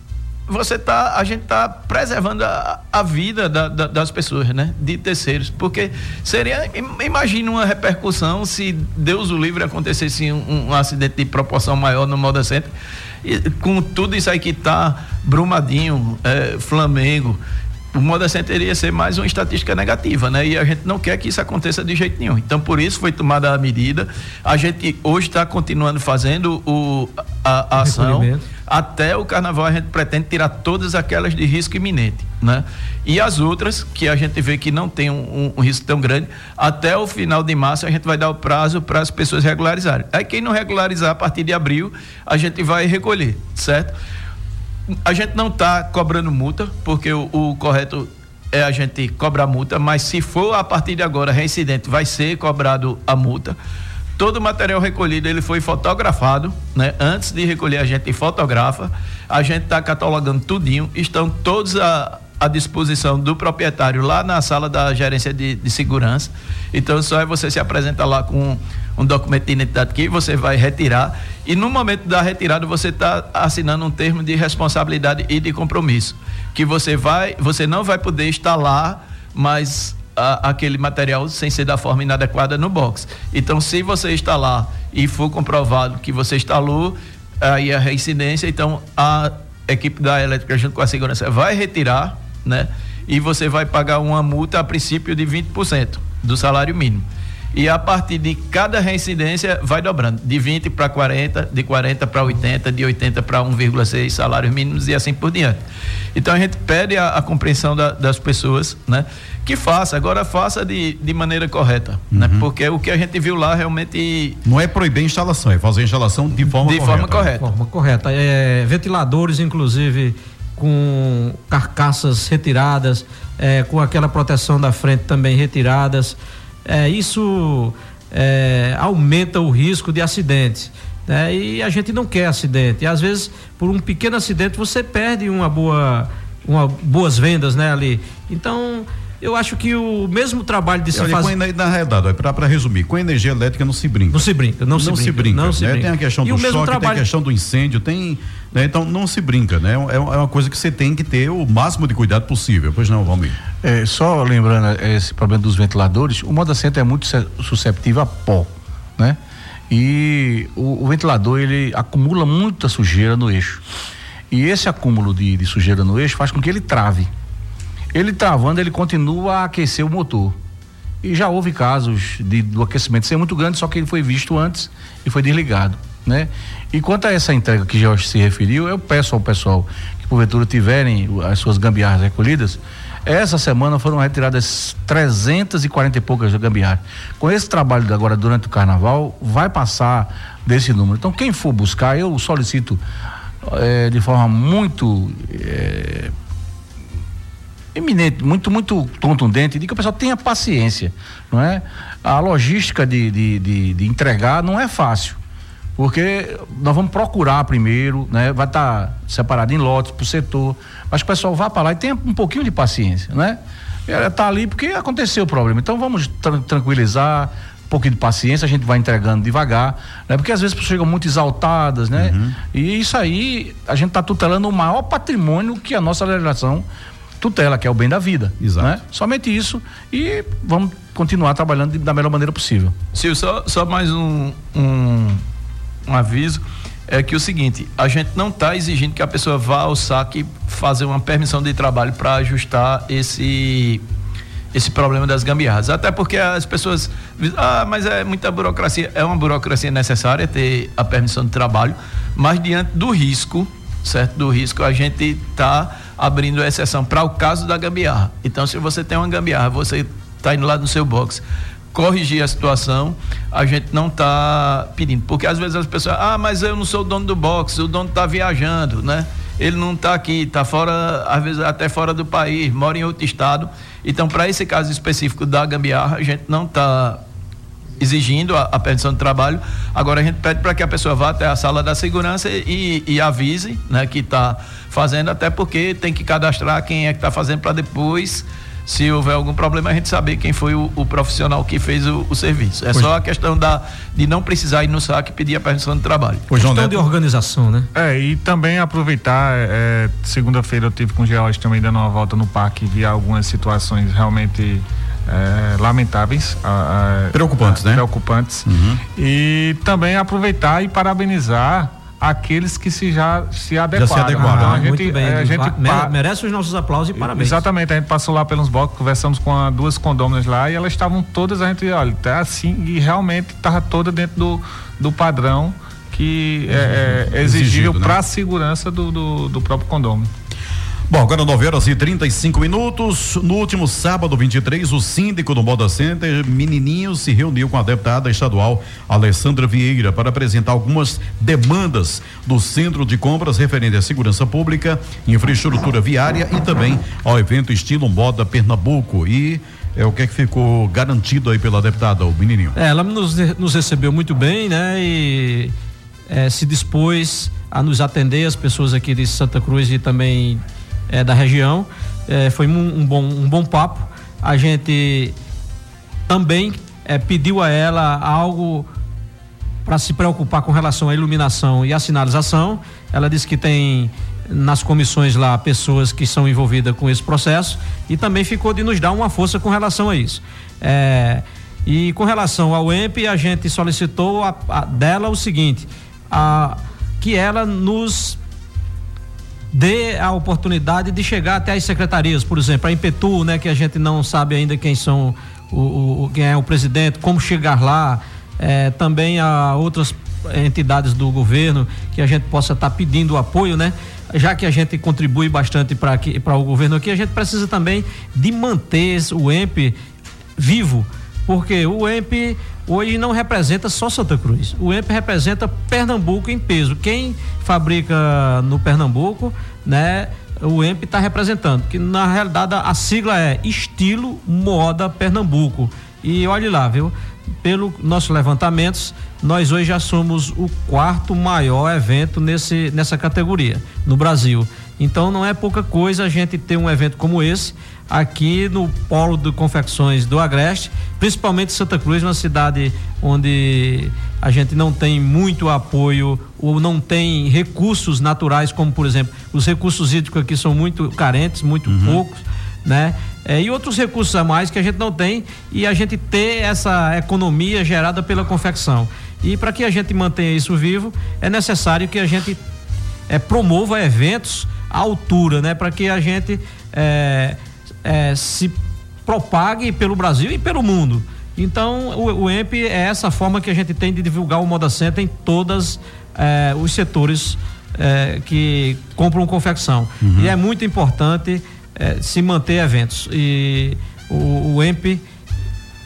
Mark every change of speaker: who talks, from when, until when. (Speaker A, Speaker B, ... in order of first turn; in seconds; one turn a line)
Speaker A: 0.5-12.7
Speaker A: 13.2-17.4
Speaker A: 17.9-43.9
Speaker B: 27.8-28.4
Speaker A: 45.0-53.6
Speaker A: 54.2-105.6
Speaker A: 106.1-114.4
Speaker C: 112.1-112.5
Speaker C: 114.4-117.3
Speaker A: 116.6-117.5
Speaker B: 117.4-141.3
Speaker C: 140.9-153.4
Speaker B: 144.1-147.1
Speaker D: 153.6-159.2
Speaker D: 159.7-163.6
Speaker D: 164.3-167.1
Speaker D: 167.9-170.4
Speaker D: 171.0-192.8
Speaker D: 193.4-196.1
Speaker D: 197.7-205.2
Speaker D: 205.8-226.6
Speaker C: 221.9-222.4
Speaker D: 227.2-232.7
Speaker C: 228.4-228.8
Speaker A: 232.9-235.2
Speaker A: 235.9-243.8
Speaker A: 244.5-277.0
Speaker A: 277.8-296.3
Speaker C: 296.3-296.8
Speaker B: 296.3-297.7
Speaker E: 297.7-315.9
Speaker C: 307.1-307.9
Speaker C: 308.4-308.8
Speaker C: 313.7-314.7
Speaker B: 314.1-317.4
Speaker E: 316.9-330.1
Speaker C: 326.6-328.0
Speaker C: 330.9-352.6
Speaker B: 352.6-355.5
Speaker B: 356.1-365.1
Speaker B: 366.1-368.7
Speaker B: 369.6-388.2
Speaker B: 389.5-409.8
Speaker B: 410.4-462.4
Speaker C: 451.7-452.0
Speaker B: 463.1-485.0
Speaker C: 480.0-480.4